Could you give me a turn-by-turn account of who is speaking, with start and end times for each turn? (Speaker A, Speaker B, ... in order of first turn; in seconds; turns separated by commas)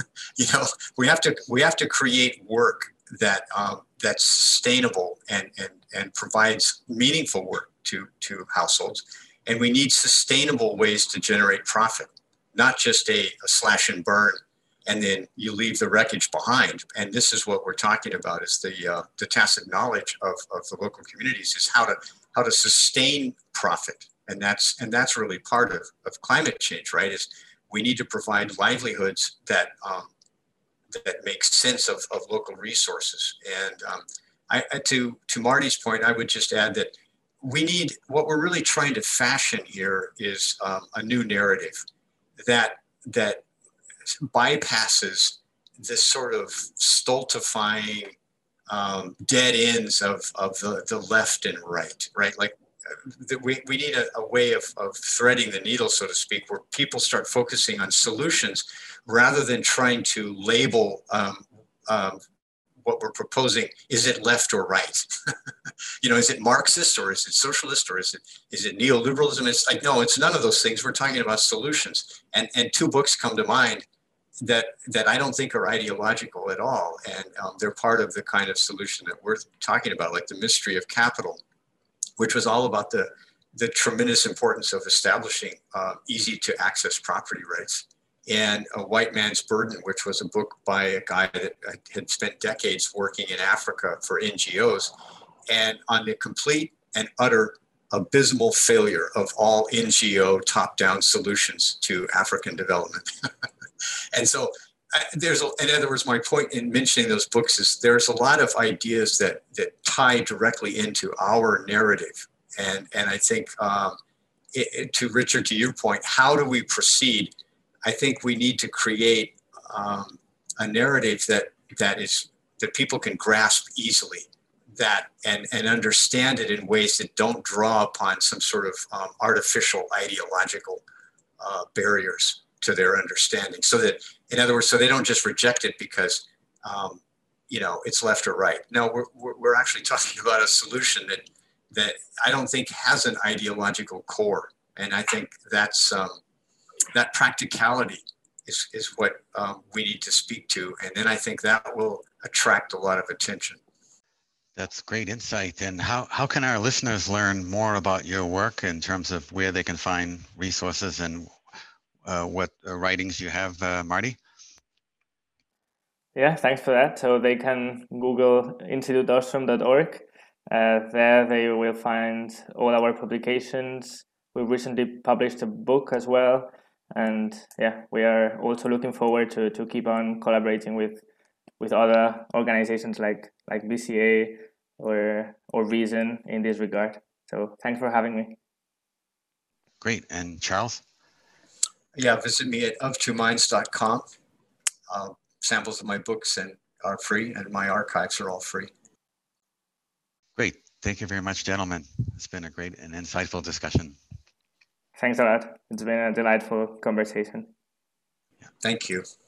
Speaker A: 0.4-30.1, Speaker A: 30.9-41.8, Speaker A: 42.4-43.4, Speaker A: 44.1-48.1, Speaker A: 48.7-62.2, Speaker A: 62.8-65.1, Speaker A: 66.0-73.9, Speaker A: 74.4-81.4, Speaker A: 82.2-94.9, Speaker A: 95.5-103.1, Speaker A: 104.1-114.0, Speaker A: 114.5-117.3, Speaker A: 117.8-130.8, Speaker A: 131.4-146.2, Speaker A: 146.9-153.6, Speaker B: 154.6-161.3, Speaker B: 162.1-164.2, Speaker C: 166.2-181.0, Speaker C: 181.6-188.4, Speaker B: 189.8-190.8, Speaker A: 191.9-194.1, Speaker A: 194.9-198.7, Speaker B: 200.4-204.0, Speaker C: 205.0-207.5, Speaker A: 208.6-209.1